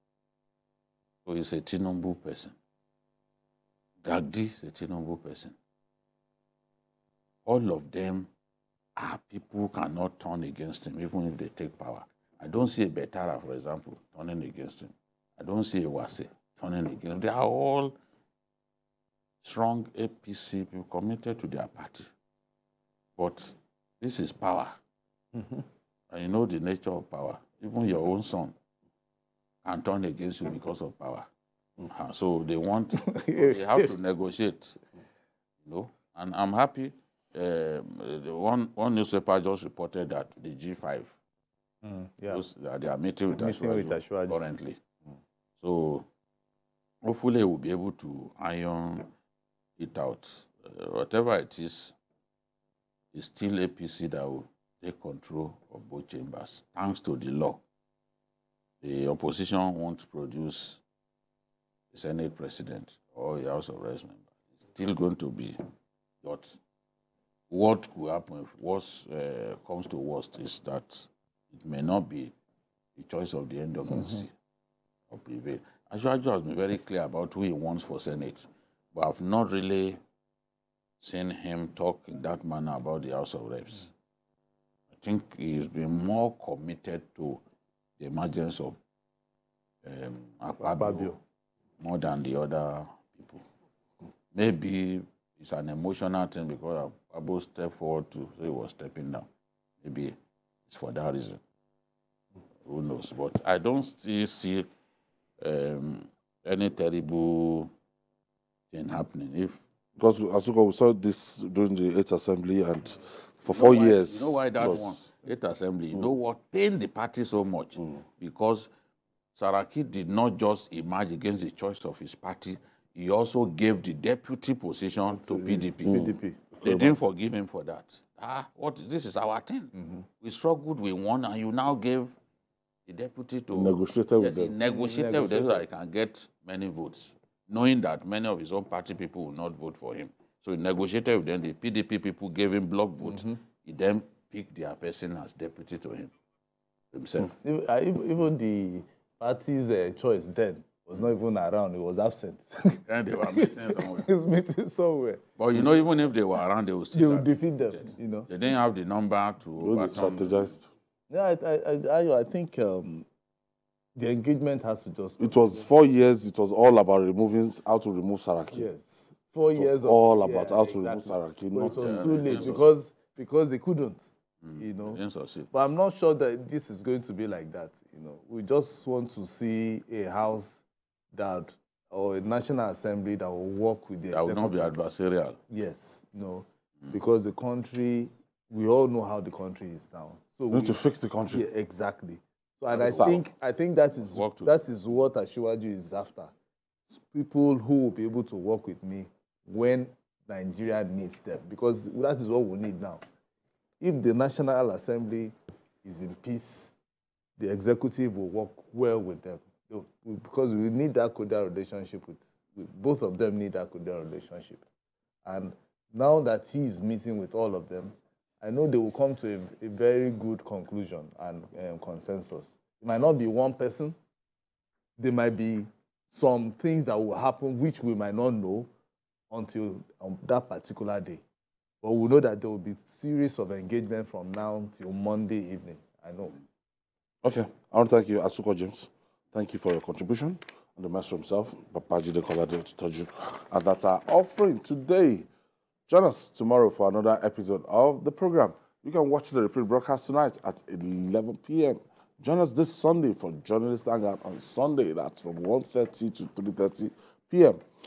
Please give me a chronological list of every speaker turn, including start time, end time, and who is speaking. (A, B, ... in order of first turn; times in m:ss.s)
0:01.3-0:02.6 A
0:04.0-0:05.6 A
0:07.5-0:08.3 A
0:09.0-0:18.0 A
0:19.4-0:22.1 A
0:23.2-0:24.8 A
0:26.1-0:28.6 A
0:29.6-0:31.3 A
0:31.9-0:34.8 A
0:33.0-0:33.9 B
0:35.6-0:41.2 A
0:41.8-0:42.4 B
0:42.3-0:44.8 A
0:43.3-0:44.4 B
0:45.6-0:46.1 A
0:47.0-0:49.1 A
0:49.8-0:52.0 A
0:53.1-0:57.6 A
0:58.8-1:00.8 A
1:01.9-1:05.6 A
1:06.2-1:06.6 A
1:07.5-1:12.3 A
1:13.0-1:14.3 A
1:15.1-1:20.0 A
1:21.0-1:23.9 A
1:24.9-1:27.4 A
1:28.0-1:28.8 A
1:29.8-1:31.1 A
1:30.6-1:31.2 B
1:31.8-1:33.4 A
1:34.3-1:39.3 A
1:39.8-1:40.2 A
1:40.7-1:41.4 A
1:42.6-1:44.7 A
1:45.4-1:47.7 A
1:48.7-1:49.6 A
1:50.0-1:55.1 C
1:53.4-1:58.7 A
1:59.4-2:12.1 A
2:05.1-2:06.4 B
2:05.8-2:07.0 C
2:09.7-2:10.1 B
2:12.9-2:26.1 A
2:13.5-2:14.6 C
2:14.6-2:15.7 B
2:23.0-2:23.3 B
2:26.9-2:27.3 A
2:27.4-2:35.9 B
2:32.9-2:34.1 A
2:35.4-2:40.6 A
2:36.9-2:38.3 B
2:39.6-2:40.7 C
2:41.1-2:43.1 B
2:44.0-2:45.6 B
2:45.2-2:48.7 C
2:48.5-3:00.6 B
2:49.5-2:52.6 C
2:51.6-2:52.7 A
2:54.4-2:55.5 A
3:01.1-3:04.8 B
3:04.1-3:05.4 A
3:05.5-3:10.8 B
3:10.5-3:11.5 C
3:11.3-3:16.3 B
3:12.7-3:13.3 A
3:12.8-3:13.2 C
3:13.9-3:14.6 A
3:16.9-3:23.0 B
3:23.8-3:26.7 B
3:27.4-3:34.6 B
3:35.2-3:44.0 B
3:45.0-3:48.7 B
3:49.3-3:51.2 B
3:51.8-3:56.4 B
3:57.2-4:05.3 C
4:05.9-4:17.6 C